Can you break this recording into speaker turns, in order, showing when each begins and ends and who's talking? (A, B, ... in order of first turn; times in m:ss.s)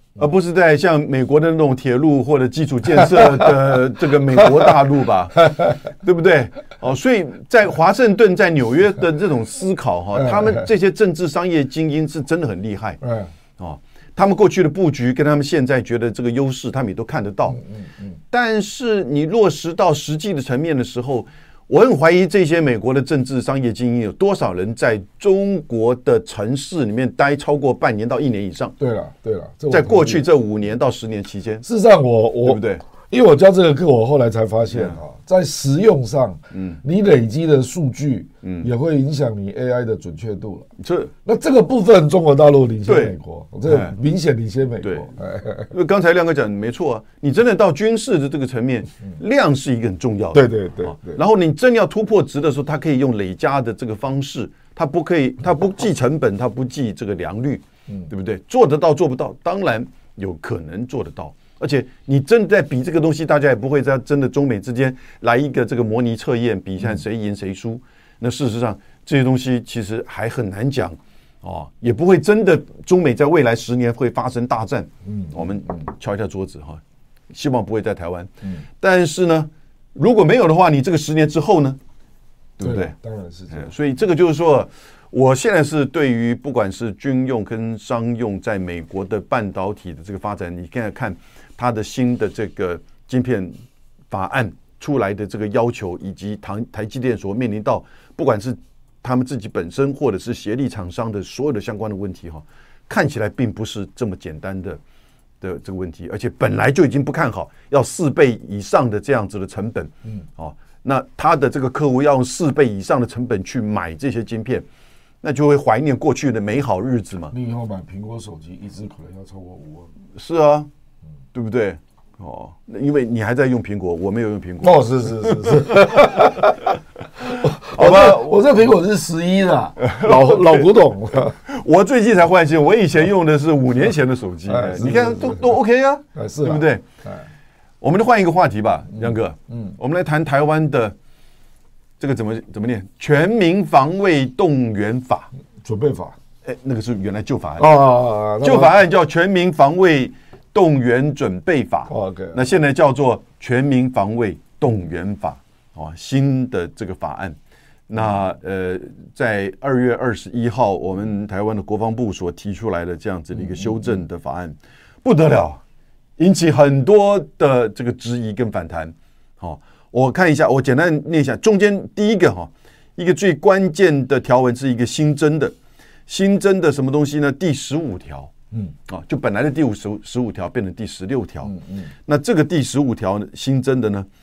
0:00.2-0:13.0 A
0:03.0-0:03.5 B
0:04.4-0:04.7 B
0:05.4-0:05.8 B
0:10.1-0:10.7 B
0:13.0-0:13.3 B
0:13.6-0:17.6 A
0:17.5-0:18.2 B
0:18.3-0:28.7 A
0:28.8-0:30.2 B
0:29.7-0:31.6 A
0:31.6-0:40.7 B
0:32.4-0:32.8 A
0:34.7-0:35.0 A
0:36.5-0:36.8 A
0:38.4-0:38.7 A
0:40.8-0:41.1 A
0:41.2-0:45.7 B
0:42.9-0:43.1 A
0:43.6-0:43.9 A
0:44.8-0:45.1 A
0:45.7-1:21.8 A
0:50.3-0:51.2 B
1:15.0-1:15.8 B
1:22.6-1:22.9 A
1:22.6-1:23.7 B
1:23.5-1:33.6 A
1:34.1-1:44.8 A
1:45.4-1:54.6 A
1:55.2-1:57.3 A
1:57.3-1:59.9 B
2:00.1-2:00.7 A
2:01.3-2:06.3 A
2:04.6-2:11.4 B
2:07.7-2:08.4 A
2:09.8-2:10.7 A
2:11.4-2:16.8 A
2:14.4-2:15.6 B
2:16.1-2:17.2 B
2:17.8-2:20.9 A
2:19.5-2:19.7 B
2:22.0-2:25.3 A
2:25.6-2:26.2 B
2:26.4-2:27.7 A
2:27.6-2:28.8 B
2:28.4-2:37.4 A
2:31.9-2:32.4 B
2:37.9-2:45.6 A
2:46.2-2:55.6 A
2:56.1-2:58.3 A
2:58.9-3:01.5 A
3:01.4-3:01.9 B
3:02.0-3:04.1 A